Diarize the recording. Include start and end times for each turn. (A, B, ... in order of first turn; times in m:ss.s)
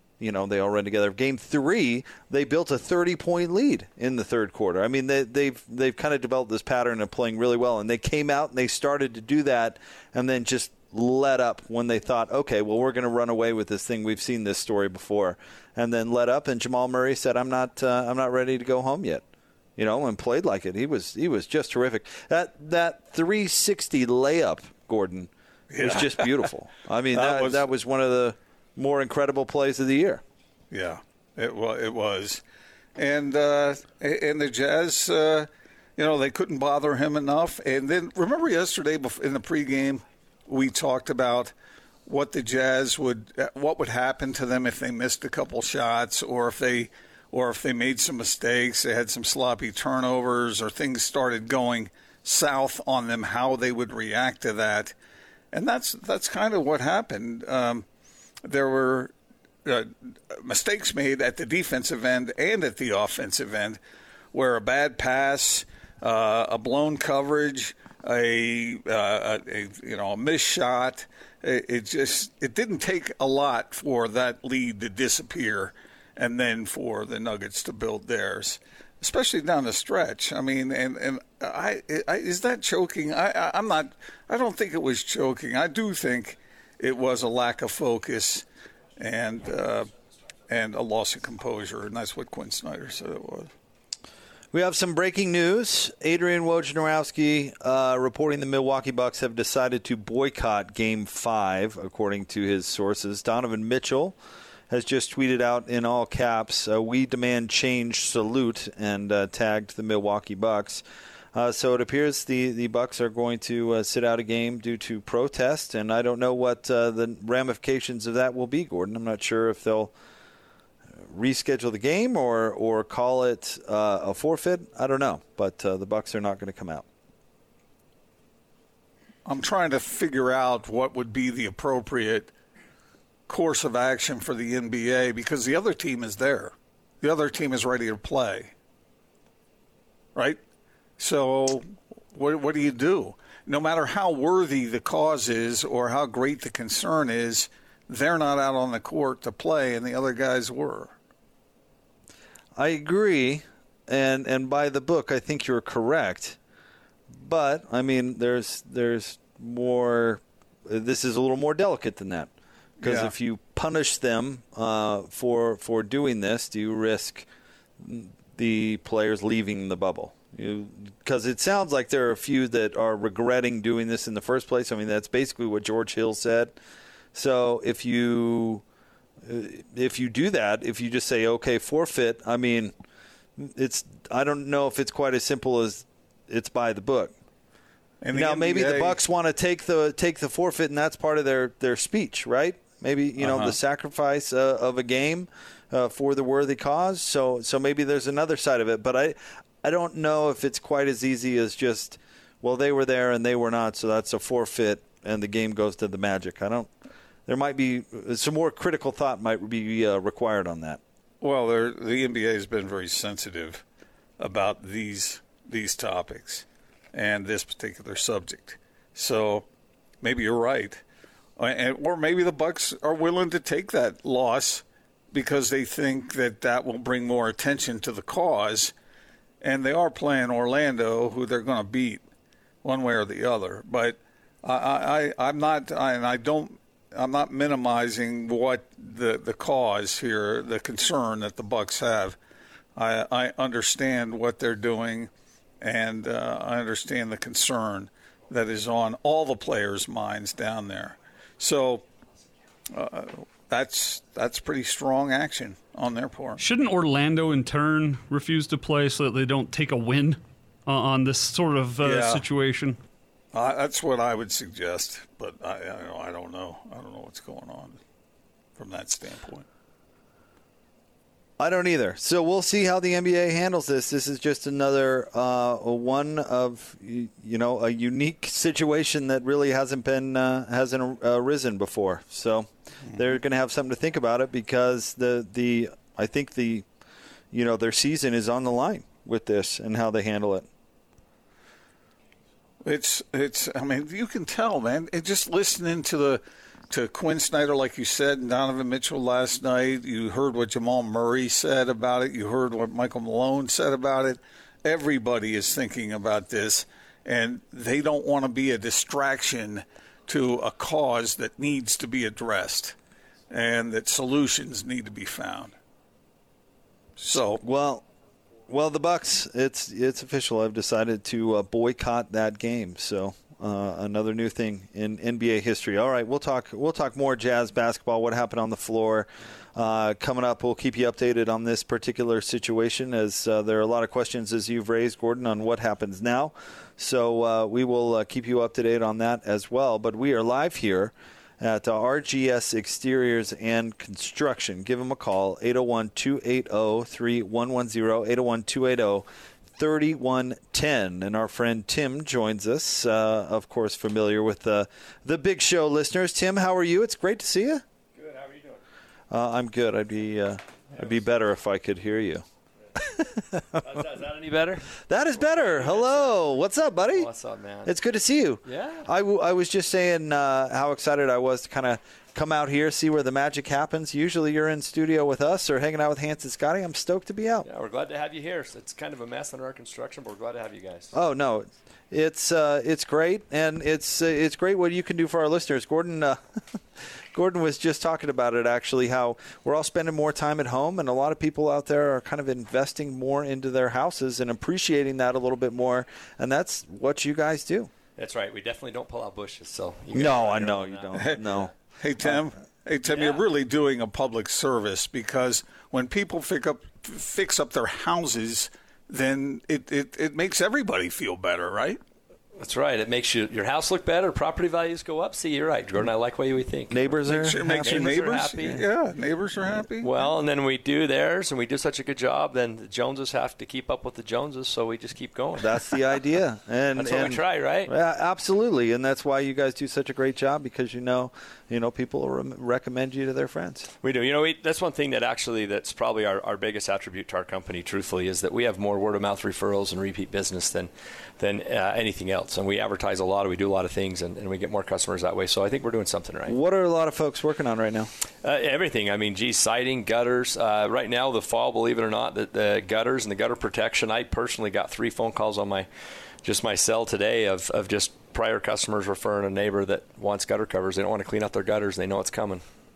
0:00.2-0:19.2 A
0:19.8-0:30.2 A
0:25.7-0:26.5 B
0:27.1-0:27.7 B
0:30.7-0:32.4 B
0:33.0-0:41.5 B
0:42.0-0:54.9 B
0:55.5-0:57.8 B
0:58.4-0:59.1 B
0:59.6-1:03.8 B
1:04.3-1:28.4 B
1:29.0-1:29.9 B
1:30.5-1:33.5 B
1:34.5-1:44.2 A
1:44.7-1:50.8 A
1:51.3-1:59.9 A
2:01.0-2:06.8 A
2:09.2-2:12.3 B
2:13.3-2:18.5 B
2:21.0-2:30.9 B
2:32.6-2:36.4 A
2:37.1-2:47.3 A
2:42.8-2:43.1 B
2:47.8-2:56.6 A
2:57.1-2:58.6 A
2:59.2-3:02.7 A
3:03.4-3:07.1 A
3:08.0-3:09.0 B
3:08.1-3:26.7 A
3:13.2-3:13.6 B
3:27.3-3:30.8 A
3:31.2-3:33.6 B
3:34.2-3:39.4 B
3:40.0-3:40.8 B
3:41.4-3:48.7 B
3:49.4-3:52.0 B
3:52.6-4:02.2 B
4:02.8-4:11.8 B
4:12.7-4:16.4 B
4:16.4-4:22.8 C
4:21.8-4:22.2 B
4:23.3-4:27.8 B
4:28.6-4:29.4 B
4:31.4-4:46.6 A
4:47.3-4:50.5 A
4:52.6-5:12.8 B
5:13.3-5:15.5 B
5:17.0-5:17.4 B
5:17.4-5:17.8 A
5:18.5-5:57.6 A
5:58.0-5:58.6 D
5:59.1-6:02.2 A
6:02.8-6:03.4 A
6:03.6-6:04.7 D
6:04.9-6:07.1 A
6:05.2-6:06.2 D
6:06.9-6:07.7 D
6:07.6-6:17.5 A
6:08.5-6:08.9 D
6:17.4-6:20.9 D
6:20.9-6:26.2 A
6:27.1-6:37.7 A
6:38.0-6:41.2 D
6:39.9-6:41.5 A
6:41.0-6:51.8 B
6:42.9-6:43.2 D
6:52.4-6:57.0 D
6:56.7-6:58.0 A
6:57.1-6:59.9 B
6:57.6-6:58.6 D
6:59.8-7:05.7 D
7:05.4-7:13.7 A
7:06.8-7:07.7 D
7:13.8-7:26.3 D
7:26.2-7:27.9 A
7:28.2-7:35.7 D
7:36.2-7:42.4 D